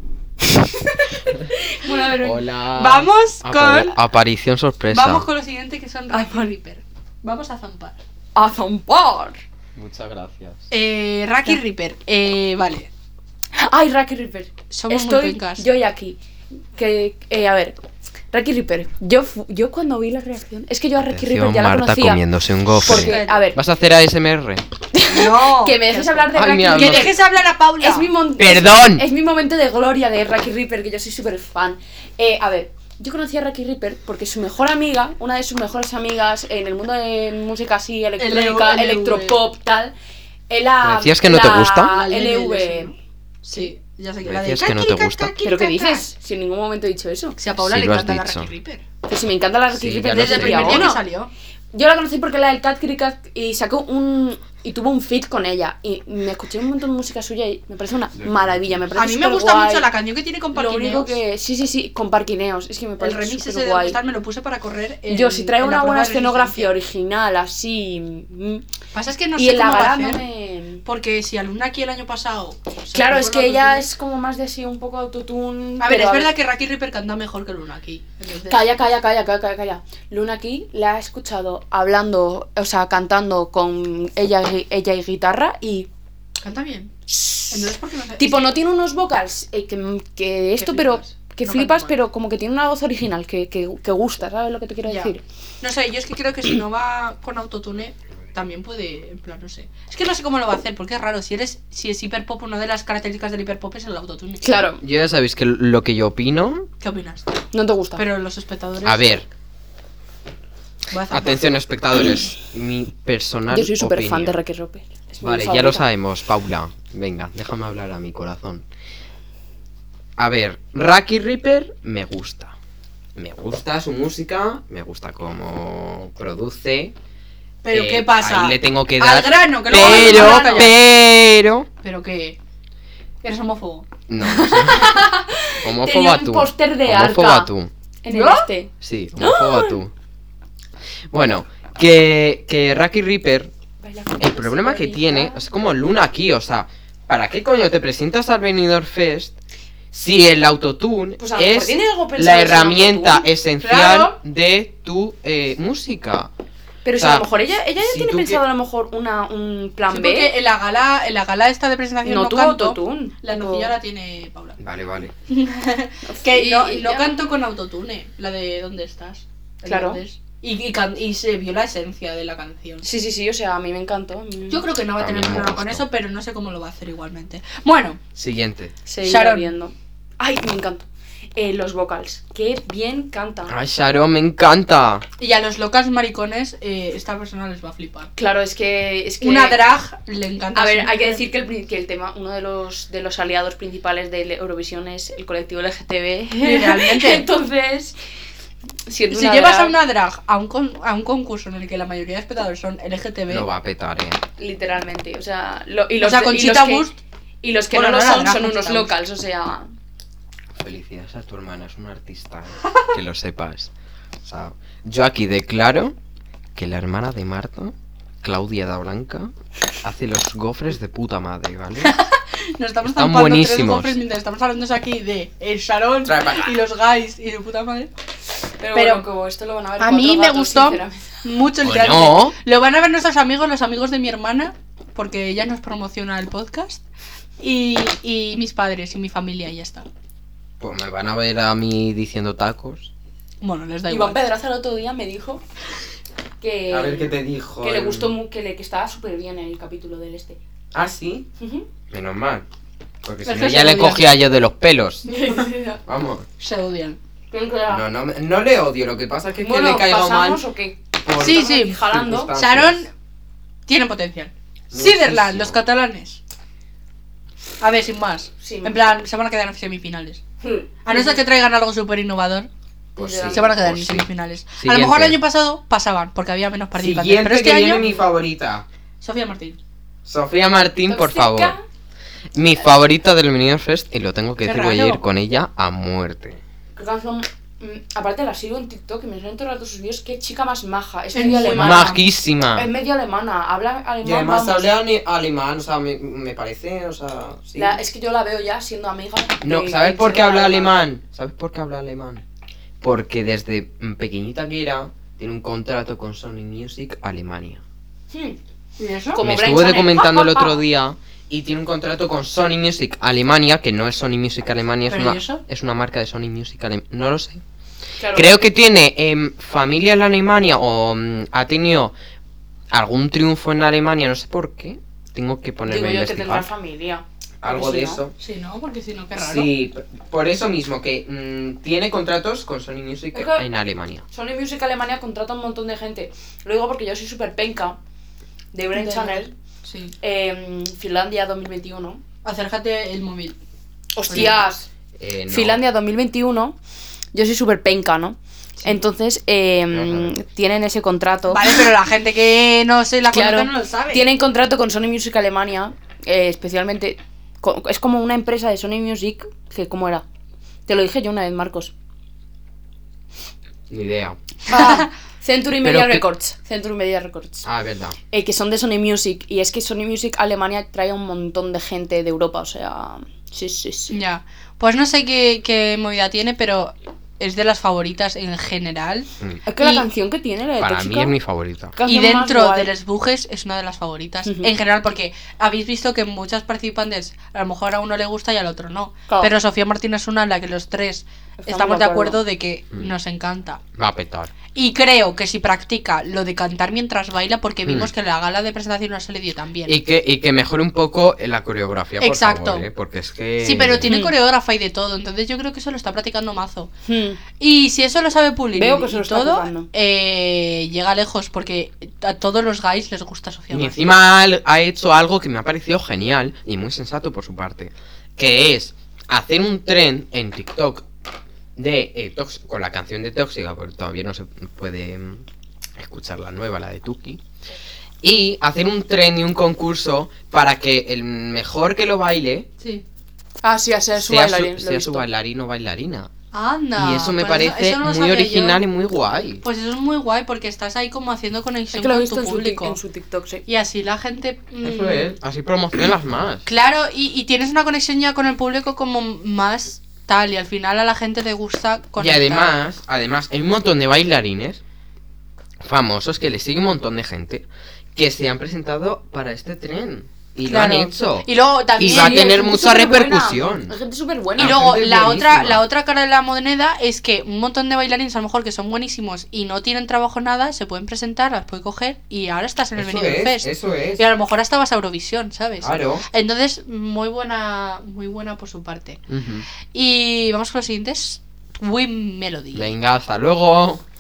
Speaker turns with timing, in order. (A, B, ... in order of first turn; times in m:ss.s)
0:01.6-0:02.4 A
0:01.8-0:04.0 B
0:02.2-0:05.3 C
0:04.9-0:08.0 B
0:06.1-0:06.5 A
0:08.4-0:09.4 A
0:09.8-0:10.7 C
0:10.7-0:12.9 B
0:13.6-0:16.2 A
0:14.7-0:15.7 B
0:16.8-0:17.8 A
0:18.3-0:22.2 A
0:21.0-0:24.6 C
0:22.8-0:23.6 A
0:22.9-0:23.4 B
0:24.9-0:27.2 A
0:25.1-0:28.1 B
0:26.3-0:27.1 C
0:27.8-0:39.9 A
0:28.4-0:29.0 C
0:38.2-0:39.4 B
0:40.5-0:42.9 A
0:40.8-0:41.9 C
0:41.8-0:46.1 B
0:44.2-0:45.3 C
0:45.4-0:47.4 A
0:47.4-0:48.8 B
0:47.6-0:48.5 C
0:49.1-0:51.0 A
0:49.7-0:50.9 C
0:50.1-0:51.3 B
0:51.7-0:59.9 A
0:58.2-0:58.8 C
0:59.0-1:01.2 B
1:00.5-1:04.0 A
1:03.0-1:06.7 B
1:05.1-1:08.7 A
1:08.9-1:10.2 B
1:09.4-1:10.8 A
1:10.8-1:13.8 B
1:12.9-1:16.3 A
1:15.8-1:18.6 B
1:18.5-1:25.9 A
1:26.4-1:26.9 B
1:27.1-1:27.6 A
1:27.5-1:28.5 B
1:28.2-1:35.2 A
1:30.6-1:31.9 B
1:34.9-1:44.4 B
1:44.4-1:44.8 A
1:44.8-1:46.7 C
1:46.8-1:47.3 B
1:47.5-1:48.0 A
1:48.0-1:49.1 B
1:48.8-1:49.3 C
1:50.9-1:51.4 B
1:51.1-1:54.4 C
1:53.5-1:55.9 A
1:55.2-1:58.6 C
2:00.2-2:02.5 C
2:03.2-2:06.9 C
2:07.6-2:10.8 B
2:07.7-2:11.7 C
2:09.7-2:10.7 A
2:11.8-2:12.4 B
2:13.2-2:15.0 B
2:14.1-2:15.1 C
2:14.5-2:17.5 A
2:15.6-2:17.7 C
2:18.0-2:19.8 A
2:18.1-2:18.5 B
2:18.8-2:19.9 C
2:21.1-2:23.5 C
2:23.8-2:25.4 A
2:24.2-2:29.4 C
2:29.9-2:36.3 C
2:31.2-2:34.1 A
2:36.8-2:40.3 A
2:37.0-2:37.3 C
2:37.8-2:38.4 C
2:39.9-2:44.6 B
2:42.0-2:43.7 A
2:44.6-2:45.1 C
2:45.3-2:52.8 B
2:46.1-2:47.2 A
2:49.7-2:50.0 A
2:52.8-2:54.7 A
2:54.5-2:58.0 B
2:55.0-2:55.8 C
2:58.2-2:58.7 C
2:58.9-3:03.6 A
2:59.0-2:59.5 B
3:03.5-3:05.0 C
3:05.2-3:08.1 B
3:08.2-3:09.6 A
3:09.2-3:11.2 B
3:10.6-3:18.0 A
3:16.4-3:17.3 B
3:18.9-3:19.8 A
3:19.1-3:23.5 B
3:23.3-3:24.2 C
3:24.4-3:26.9 A
3:26.0-3:27.0 B
3:27.4-3:29.7 A
3:27.7-3:28.9 B
3:30.6-3:33.7 C
3:34.2-3:36.0 C
3:36.6-3:39.3 C
3:39.8-3:42.0 C
3:41.8-3:47.9 B
3:42.8-3:44.0 C
3:46.0-3:46.5 C
3:48.6-3:51.2 A
3:48.8-3:49.0 B
3:49.8-3:56.8 B
3:51.6-3:52.4 C
3:57.4-3:59.9 B
4:00.6-4:02.9 C
4:03.4-4:04.2 B
4:03.9-4:05.4 A
4:06.4-4:10.4 A
4:06.7-4:08.2 C
4:10.7-4:11.3 C
4:11.4-4:11.7 A
4:11.9-4:12.4 C
4:13.0-4:15.1 C
4:13.2-4:14.1 B
4:15.1-4:15.8 A
4:15.9-4:16.3 C
4:16.4-4:17.0 B
4:17.3-4:17.8 A
4:17.7-4:20.4 C
4:19.4-4:22.3 A
4:21.0-4:22.8 C
4:21.2-4:21.8 B
4:22.4-4:22.9 B
4:23.7-4:26.2 B
4:24.7-4:25.6 C
4:27.6-4:30.2 B
4:28.4-4:28.8 A
4:30.4-4:31.2 A
4:30.8-4:32.5 B
4:33.0-4:33.5 A
4:33.0-4:35.2 C
4:33.3-4:37.9 B
4:36.8-4:38.6 C
4:39.0-4:39.6 B
4:40.0-4:41.6 C
4:40.9-4:41.6 A
4:42.3-4:46.4 C
4:44.4-4:45.0 B
4:46.8-4:52.0 A
4:51.1-4:52.0 B
4:51.5-4:52.7 C
4:52.5-4:54.7 A
4:54.0-4:57.8 C
4:57.6-5:00.8 A
4:59.4-5:02.2 C
5:02.8-5:07.6 C
5:08.1-5:08.4 A
5:08.8-5:09.2 B
5:09.1-5:10.6 A
5:09.2-5:17.4 C
5:14.9-5:15.4 B
5:18.0-5:18.4 A
5:18.1-5:21.9 C
5:22.7-5:26.5 C
5:25.7-5:28.0 A
5:27.4-5:28.1 C
5:28.2-5:29.5 B
5:29.2-5:34.0 C
5:33.1-5:33.4 A
5:34.1-5:37.8 A
5:38.5-5:39.3 A
5:38.7-5:39.9 B
5:40.0-5:42.0 A
5:42.2-5:43.4 B
5:44.0-5:44.7 A
5:44.1-5:44.4 B
5:45.0-5:45.6 C
5:45.3-5:46.6 A
5:47.1-5:51.7 A
5:49.7-5:50.2 C
5:51.3-5:54.1 B
5:53.1-6:00.0 A
6:00.7-6:01.7 A
6:03.7-6:04.2 C
6:04.5-6:04.9 B
6:04.5-6:07.5 A
6:05.6-6:06.0 C
6:07.4-6:08.0 C
6:08.1-6:13.9 A
6:13.9-6:19.9 B
6:19.5-6:21.2 A
6:20.6-6:21.8 C
6:21.8-6:22.7 A
6:21.8-6:33.6 B
6:24.3-6:24.5 A
6:31.4-6:32.2 A
6:33.8-6:34.3 C
6:34.5-6:39.8 B
6:37.7-6:37.9 C
6:39.7-6:43.9 C
6:42.0-6:42.7 B
6:43.4-6:46.7 B
6:43.9-6:44.2 A
6:46.9-6:47.2 A
6:47.4-6:53.8 B
6:48.5-6:49.7 A
6:53.5-7:00.9 C
7:01.6-7:05.3 C
7:05.8-7:07.2 C
7:08.0-7:12.5 C
7:13.4-7:15.1 A
7:14.0-7:16.1 C
7:16.3-7:18.6 B
7:16.8-7:19.4 C
7:19.4-7:22.8 B
7:21.7-7:23.4 A
7:23.5-7:25.2 B
7:24.6-7:26.4 C
7:26.5-7:32.5 B
7:32.0-7:34.6 C
7:35.6-7:43.7 C
7:40.5-7:42.4 B
7:41.8-7:44.7 A
7:44.4-7:45.6 C
7:44.4-7:59.0 B
7:52.8-7:54.0 C
7:55.6-7:56.0 C
7:59.1-7:59.5 C
7:59.7-8:02.7 B
8:02.5-8:03.8 C